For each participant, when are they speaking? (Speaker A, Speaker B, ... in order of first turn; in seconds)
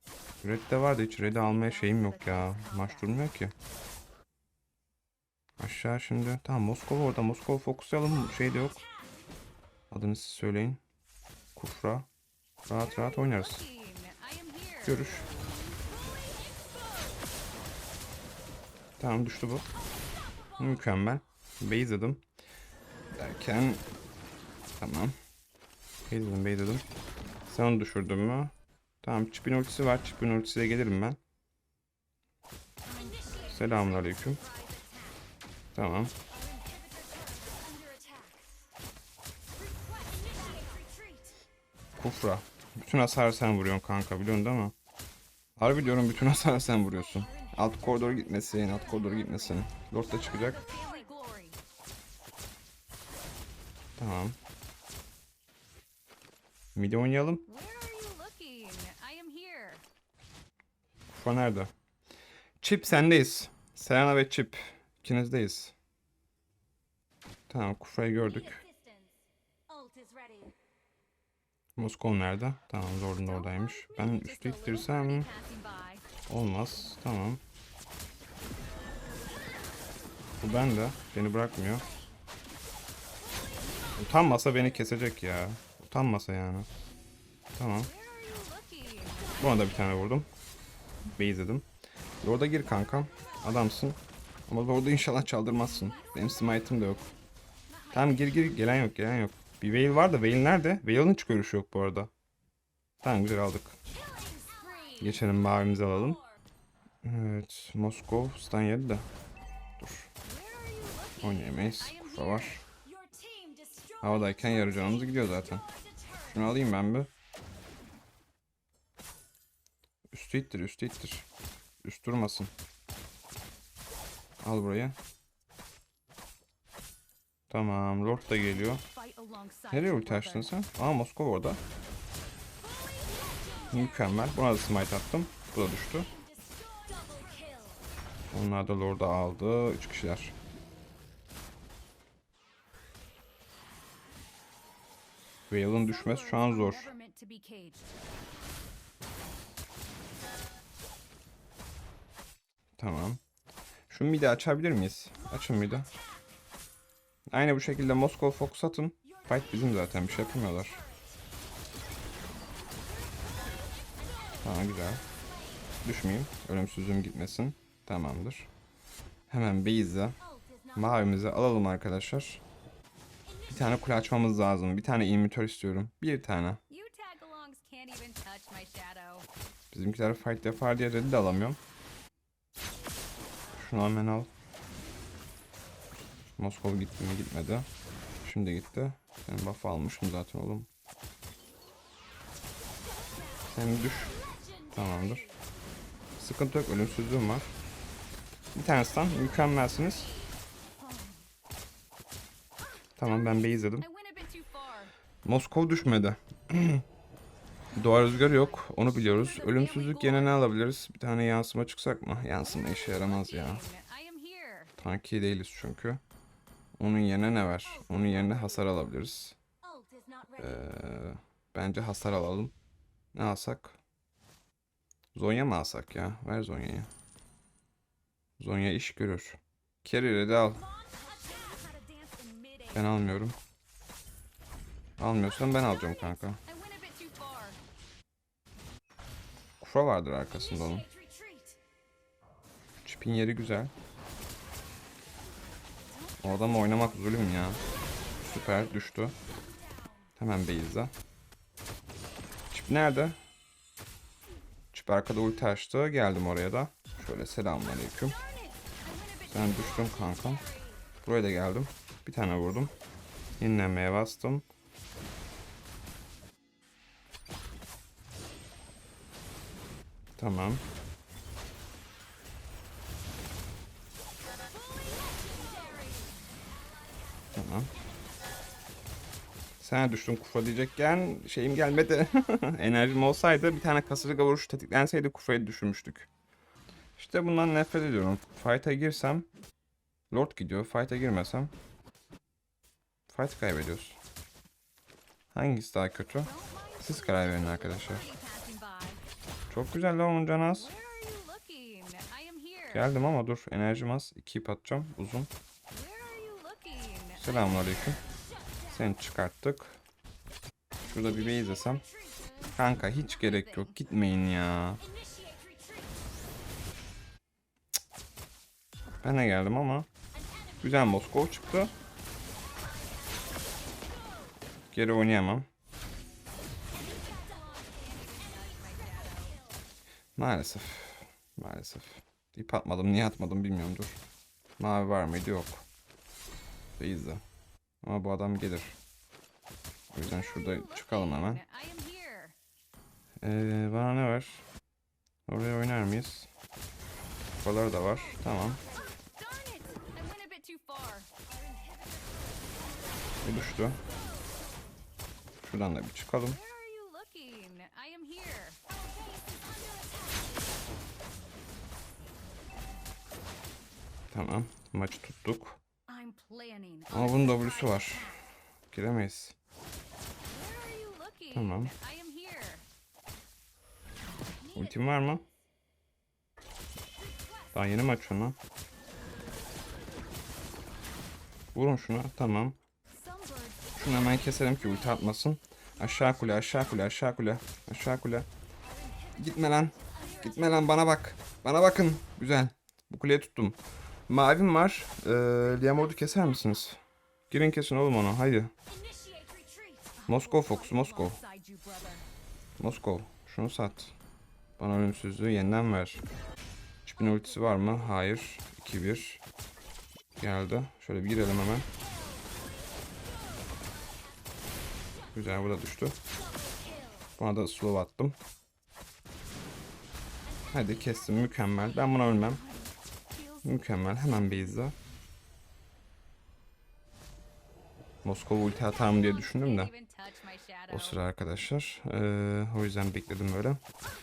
Speaker A: 0.4-3.5, 5.6-8.8, 9.9-10.8, 11.5-12.1, 12.7-13.6, 14.8-15.2, 19.0-19.7, 20.6-22.2, 23.2-23.8, 24.8-25.1, 26.1-26.8, 27.5-31.2, 33.5-34.4, 35.7-36.1, 42.0-44.7, 45.6-50.6, 54.0-54.4, 56.7-57.4, 61.1-61.7, 62.6-65.7, 67.5-68.6, 71.8-75.3, 76.3-77.4, 80.4-81.8, 84.0-86.7, 87.5-87.9, 89.4-90.3, 91.2-91.7, 92.2-97.0, 97.9-102.1, 103.0-103.8, 105.0-106.2, 107.0-109.0, 109.8-110.1, 111.2-112.6, 114.0-115.6, 116.2-117.1, 120.1-121.2, 121.8-122.5, 124.4-125.0, 127.5-128.8, 129.7-131.6, 133.7-136.1, 138.3-140.3, 145.5-146.9, 152.8-153.2, 153.9-155.9, 157.3-160.8, 164.4-165.0, 165.8-168.5, 169.3-170.2, 170.7-172.4, 173.5-176.6, 179.7-181.6, 183.6-184.3, 186.4-187.7, 188.2-190.7, 193.5-194.2, 194.7-195.2, 196.2-197.5, 198.5-200.1, 203.0-203.8, 205.2-206.8, 207.7-213.6, 214.8-216.0, 216.8-219.3, 220.4-222.5, 223.1-223.8, 225.1-226.9, 228.4-230.6, 232.7-233.4, 235.0-236.4, 239.6-240.9, 242.8-243.7, 246.2-247.6, 248.2-249.1, 250.2-250.9, 252.5-253.2, 254.7-258.1, 259.3-260.4, 261.0-262.7, 263.4-264.4, 270.2-270.6, 277.3-277.7, 279.6-286.1, 287.0-289.3, 290.1-291.5, 293.1-294.0, 295.3-298.1, 299.5-300.7, 302.7-305.3, 307.2-308.0, 308.7-309.8, 310.9-311.8, 312.6-314.8, 319.0-319.9, 320.6-321.7, 324.7-325.5, 330.1-334.0, 334.6-335.6, 336.8-337.2, 337.8-338.8, 339.9-341.4, 343.2-344.4, 345.3-346.3, 347.3-348.6, 353.2-353.8, 355.4-356.4, 364.1-365.6, 366.9-368.1, 368.7-369.3, 371.3-371.7, 374.5-375.2, 377.5-378.4, 381.5-382.6, 383.8-388.3, 389.2-393.6, 394.1-398.5, 400.1-401.2, 402.6-403.9, 404.6-406.0, 406.8-409.2, 410.2-411.7, 415.1-416.0, 417.2-418.2, 420.5-422.4, 423.4-424.7, 428.0-429.7, 430.7-433.6
Speaker B: 1.1-3.1, 12.8-16.6, 32.8-35.3, 36.3-38.4, 39.9-41.3, 46.7-51.6, 57.5-59.8, 68.2-69.1, 69.7-70.5, 73.2-76.0, 83.4-84.7, 87.8-89.9, 95.6-97.1, 97.7-98.5, 104.0-105.2, 110.2-114.8, 128.5-130.5, 133.3-133.8, 136.4-137.8, 145.7-147.9, 176.7-179.3, 200.8-201.3, 203.1-204.9, 208.3-210.5, 212.4-214.7, 219.7-220.7, 230.7-233.0, 236.4-237.6, 240.9-241.6, 245.8-247.2, 258.2-260.8, 274.6-276.4, 296.2-299.0, 300.5-302.9, 305.7-308.0, 311.3-313.8, 315.0-315.9, 322.8-323.5, 326.8-329.4, 340.0-342.4, 349.0-351.9, 356.3-360.3, 365.9-368.2, 370.2-372.7, 374.4-375.2, 382.9-383.8, 389.0-390.6, 399.0-402.1, 422.1-424.6, 428.6-431.0